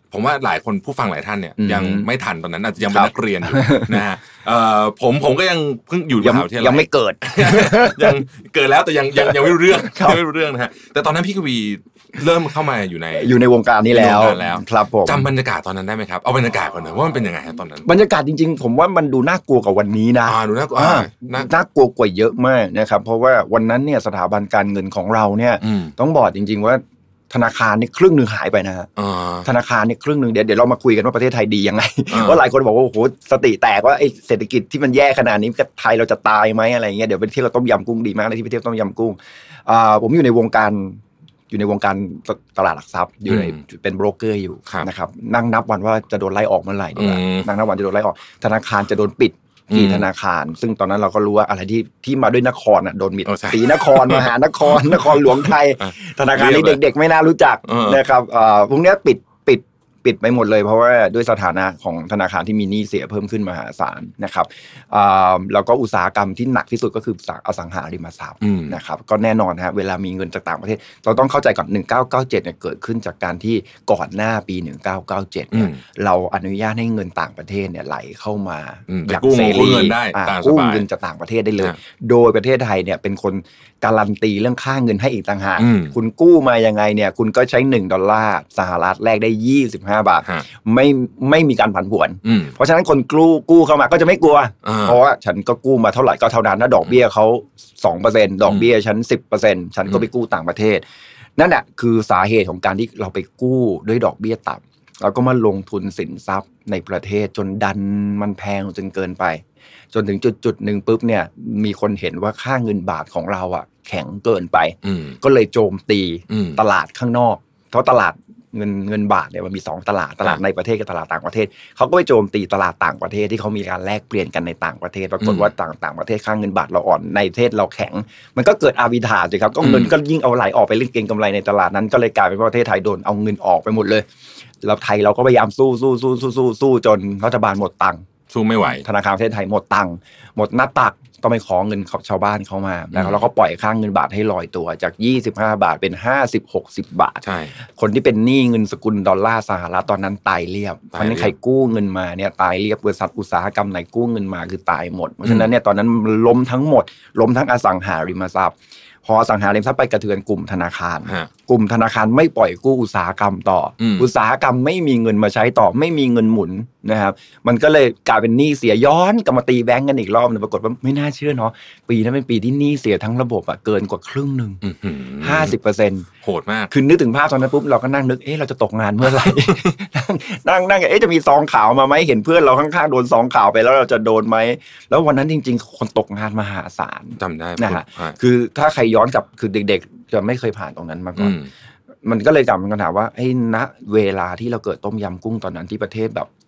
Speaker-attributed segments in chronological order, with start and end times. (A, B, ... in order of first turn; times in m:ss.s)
0:00.1-0:13.3 A
0:01.6-0:02.1 B
0:02.9-0:04.0 B
0:06.2-0:08.2 B
0:09.2-0:10.2 B
0:13.2-0:15.3 B
0:13.9-0:17.9 A
0:17.8-0:28.9 B
0:20.3-0:21.5 A
0:25.6-0:25.9 A
0:29.0-0:29.5 A
0:29.4-1:40.8 B
0:32.1-0:32.4 A
0:43.3-0:43.6 A
0:47.0-0:47.5 A
0:49.7-0:50.1 A
0:53.3-0:56.8 A
0:57.7-0:58.0 A
1:08.4-1:08.8 A
1:15.5-1:15.8 A
1:18.9-1:20.9 A
1:25.6-1:25.9 A
1:32.2-1:32.6 A
1:34.6-1:35.0 A
1:41.4-2:14.1 B
1:54.8-1:55.2 A
1:56.3-1:56.6 A
2:05.2-2:05.5 A
2:09.6-2:09.9 A
2:14.6-2:18.0 B
2:18.3-2:18.8 A
2:18.8-2:54.6 B
2:22.9-2:23.2 A
2:27.2-2:27.5 A
2:30.9-2:31.3 A
2:43.8-2:44.1 A
2:54.6-2:55.6 A
2:55.2-2:56.1 B
2:56.2-2:56.7 A
2:56.7-3:11.4 B
2:59.0-2:59.6 A
3:07.2-3:08.2 A
3:11.2-3:11.5 A
3:12.0-3:16.3 B